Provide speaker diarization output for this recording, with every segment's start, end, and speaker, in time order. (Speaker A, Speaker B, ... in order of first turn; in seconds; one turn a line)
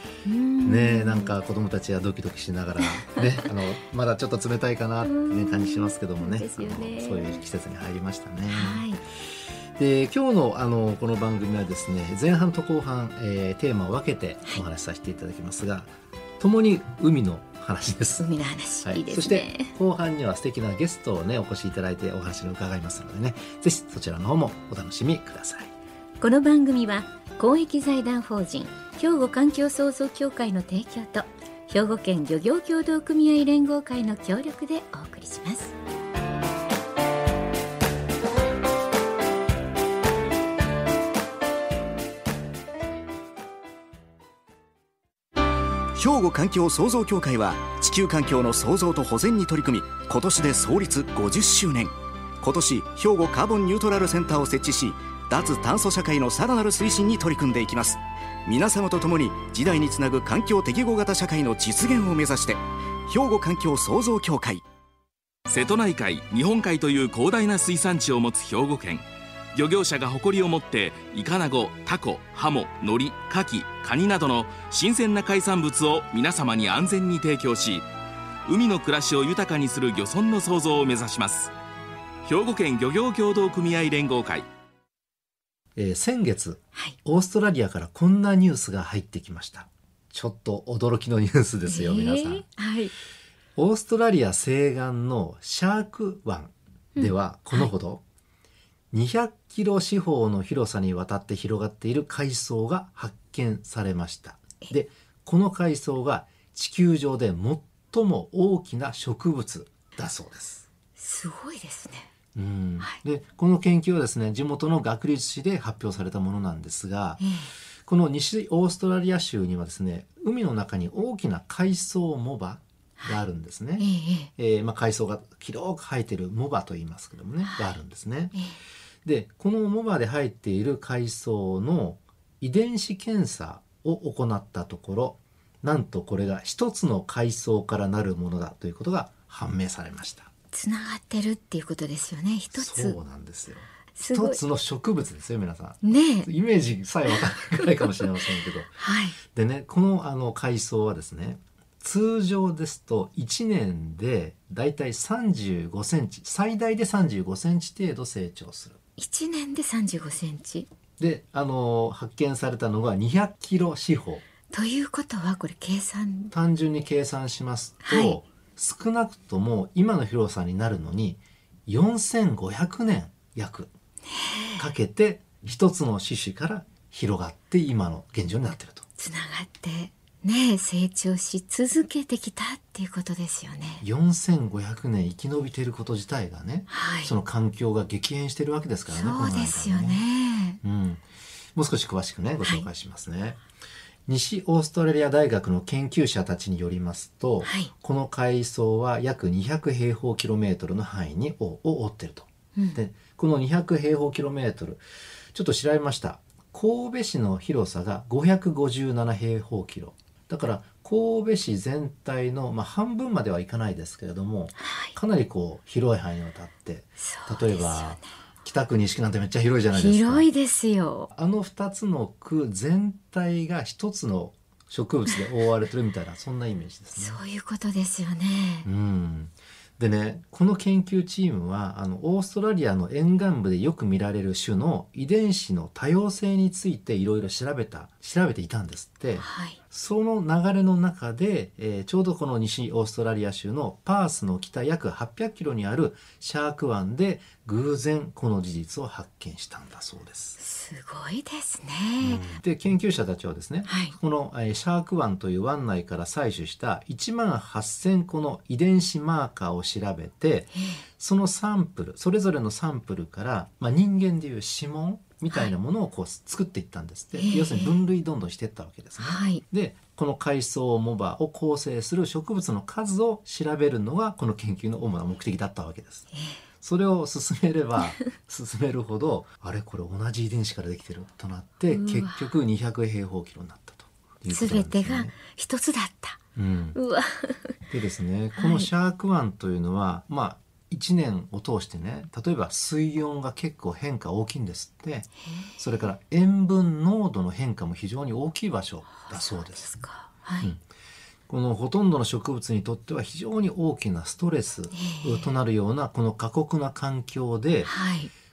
Speaker A: 0.2-1.3
Speaker B: 0.6-8.9
Speaker A: 5.0-7.4
Speaker A: 8.5-9.0
Speaker B: 9.7-18.3
Speaker A: 18.2-19.7
Speaker B: 18.8-25.7
Speaker A: 26.2-35.7
Speaker C: 45.9-64.6
Speaker D: 65.5-77.9
Speaker D: 78.5-81.5
Speaker D: 82.2-84.5
Speaker B: 85.8-92.5
Speaker A: 91.7-92.9
Speaker B: 93.6-98.0
Speaker A: 96.9-97.7
Speaker B: 98.9-110.7
Speaker A: 111.0-112.1
Speaker B: 112.3-117.2
Speaker A: 117.2-117.5
Speaker B: 117.8-128.3
Speaker A: 123.8-124.3
Speaker A: 127.5-127.7
Speaker B: 129.0-140.3
Speaker A: 140.5-143.0
Speaker B: 142.5-158.8
Speaker A: 143.9-144.4
Speaker A: 145.8-146.3
Speaker A: 148.8-149.2
Speaker A: 159.0-160.7
Speaker B: 161.0-164.2
Speaker A: 164.5-166.3
Speaker B: 166.3-173.7
Speaker A: 167.8-168.2
Speaker A: 174.1-174.7
Speaker B: 174.6-178.8
Speaker A: 179.0-183.8
Speaker B: 183.8-190.1
Speaker A: 186.7-187.2
Speaker A: 188.9-190.6
Speaker B: 190.6-191.0
Speaker B: 191.5-193.4
Speaker A: 192.4-192.7
Speaker B: 194.1-204.8
Speaker A: 197.4-197.7
Speaker A: 202.5-202.8
Speaker B: 205.3-220.3
Speaker A: 214.6-214.9
Speaker A: 217.0-218.1
Speaker A: 219.7-221.1
Speaker B: 221.1-227.2
Speaker A: 227.0-228.7
Speaker B: 228.6-250.4
Speaker A: 239.2-239.6
Speaker A: 250.4-252.3
Speaker B: 252.0-276.1
Speaker A: 253.7-253.9
Speaker A: 260.5-260.8
Speaker A: 267.2-267.8
Speaker A: 269.0-269.4
Speaker A: 276.1-276.4
Speaker B: 276.6-285.1
Speaker A: 281.7-282.3
Speaker A: 284.3-286.2
Speaker B: 286.4-286.8
Speaker A: 286.8-287.6
Speaker B: 287.7-299.8
Speaker A: 288.4-288.7
Speaker A: 295.2-295.8
Speaker A: 298.9-300.5
Speaker B: 301.3-307.7
Speaker A: 304.7-305.3
Speaker A: 307.6-308.1